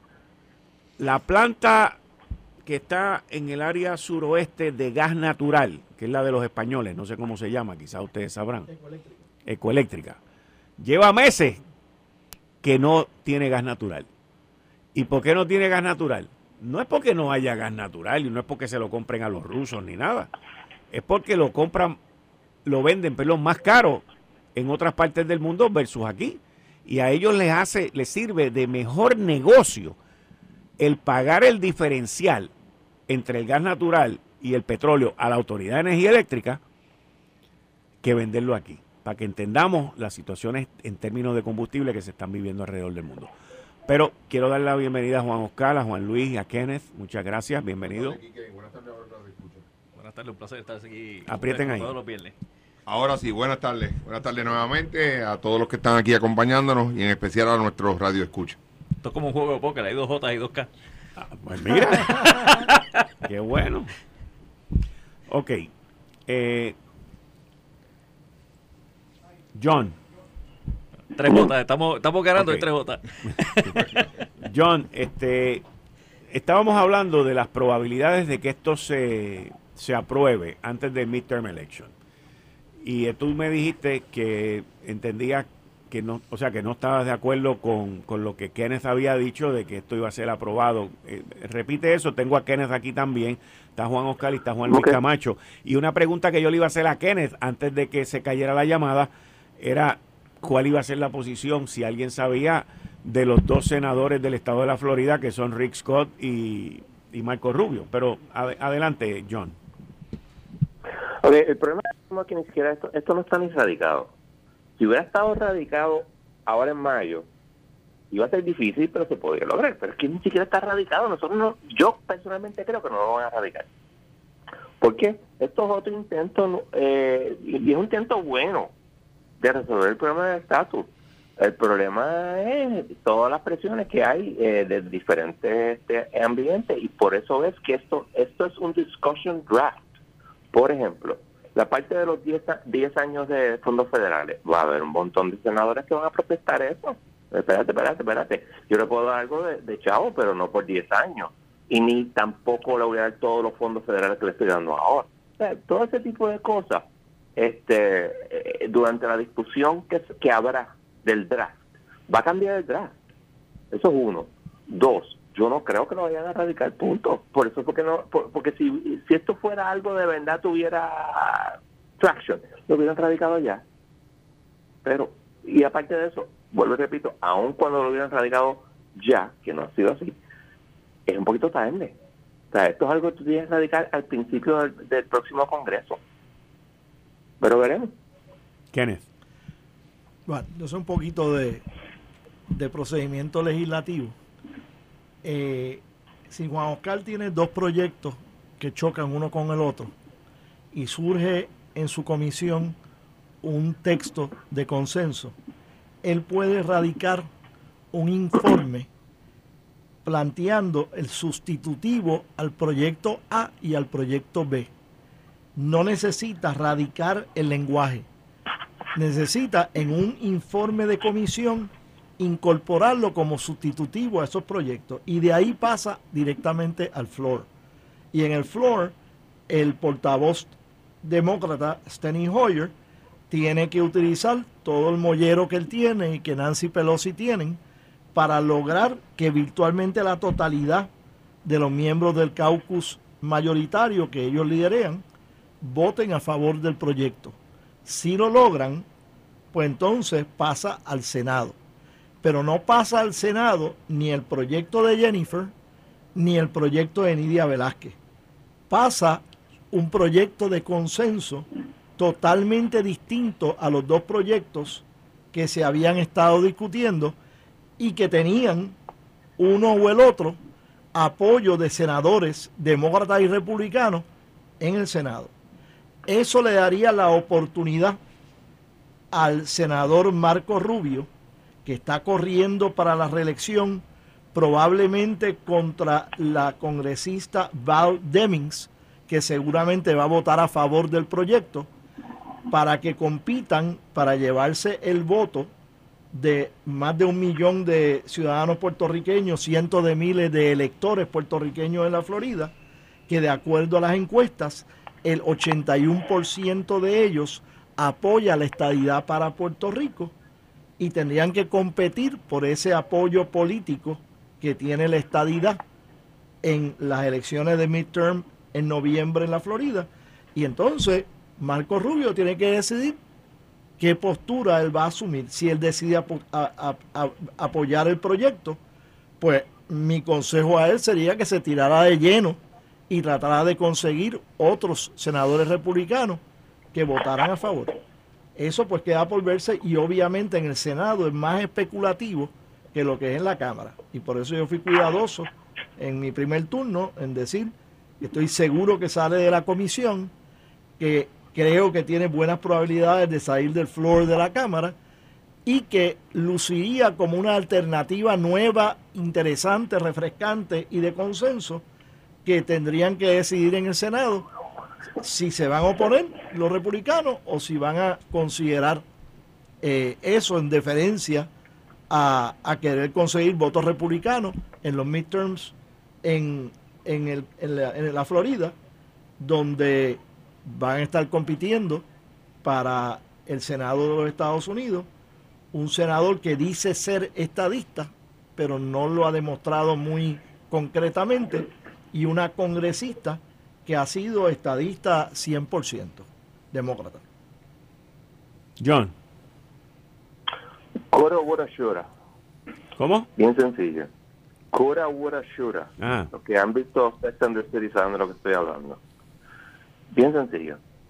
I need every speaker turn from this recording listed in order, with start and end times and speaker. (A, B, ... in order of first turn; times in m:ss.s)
0:01.0-0:02.0 A
0:02.6-0:08.7 A
0:08.7-0:09.2 B
0:09.4-0:10.2 A
0:10.8-0:11.6 A
0:12.6-0:14.1 A
0:14.9-0:20.3 A
0:20.9-0:22.0 A
0:22.6-0:30.0 A
0:30.8-0:32.5 A
0:33.1-0:36.6 A
0:38.0-0:43.3 A
0:43.8-0:48.2 A
0:47.9-0:49.6 C
0:50.0-0:52.3 D
0:51.2-0:51.9 A
0:52.9-0:58.6 C
0:59.0-1:00.7 D
1:01.2-1:02.7 A
1:02.1-1:02.5 D
1:03.2-1:03.9 A
1:05.3-1:05.7 A
1:06.3-1:06.8 A
1:09.5-1:10.0 A
1:11.1-1:13.8 D
1:12.4-1:12.7 A
1:14.4-1:15.6 A
1:16.3-1:21.9 A
1:22.8-1:49.6 A
1:34.7-1:35.0 E
1:51.2-1:54.1 E
1:54.8-1:57.3 E
1:58.1-2:03.7 E
2:04.8-2:08.7 E
2:09.4-2:19.9 E
2:20.5-2:42.9 E
2:43.7-2:53.6 E
2:54.8-3:00.2 E
3:01.1-3:02.0 E
3:02.5-3:06.0 E
3:07.4-3:07.9 E
3:08.7-3:09.0 A
3:10.2-3:11.6 B
3:12.5-3:14.2 B
3:15.2-3:19.9 B
3:20.7-3:22.8 B
3:23.4-3:25.4 B
3:26.0-3:27.3 B
3:27.9-3:28.9 B
3:30.0-3:34.7 B
3:35.6-3:38.1 B
3:38.9-3:47.5 B
3:48.1-3:49.0 B
3:49.5-3:52.7 B
3:53.3-3:57.6 B
3:58.1-4:00.9 B
4:01.4-4:05.0 B
4:05.6-4:08.8 B
4:09.5-4:11.6 B
4:12.2-4:15.5 B
4:16.1-4:18.0 B
4:18.7-4:27.2 B
4:27.8-4:28.8 B
4:29.4-4:30.4 B
4:30.9-4:34.0 B
4:34.6-4:35.3 B
4:36.1-4:38.0 B
4:39.1-4:41.1 B
4:41.6-4:51.7 B
4:52.5-4:55.5 B
4:56.1-5:02.5 B
5:03.1-5:10.1 B
5:10.8-5:15.6 B
5:16.4-5:23.0 B
5:23.8-5:28.6 B
5:29.2-5:36.2 B
5:36.7-5:37.8 B
5:38.4-5:50.1 B
5:50.8-5:54.8 B
5:55.4-6:01.6 B
6:02.2-6:04.3 B
6:05.0-6:08.8 B
6:09.6-6:11.3 B
6:11.9-6:18.6 B
6:19.2-6:21.9 B
6:22.4-6:24.9 B
6:25.5-6:37.0 B
6:38.6-6:38.9 A
6:40.9-6:41.9 E
6:42.8-6:43.1 A
6:43.2-6:43.9 E
6:44.5-6:48.8 E
6:45.8-6:46.1 A
6:49.9-6:50.6 E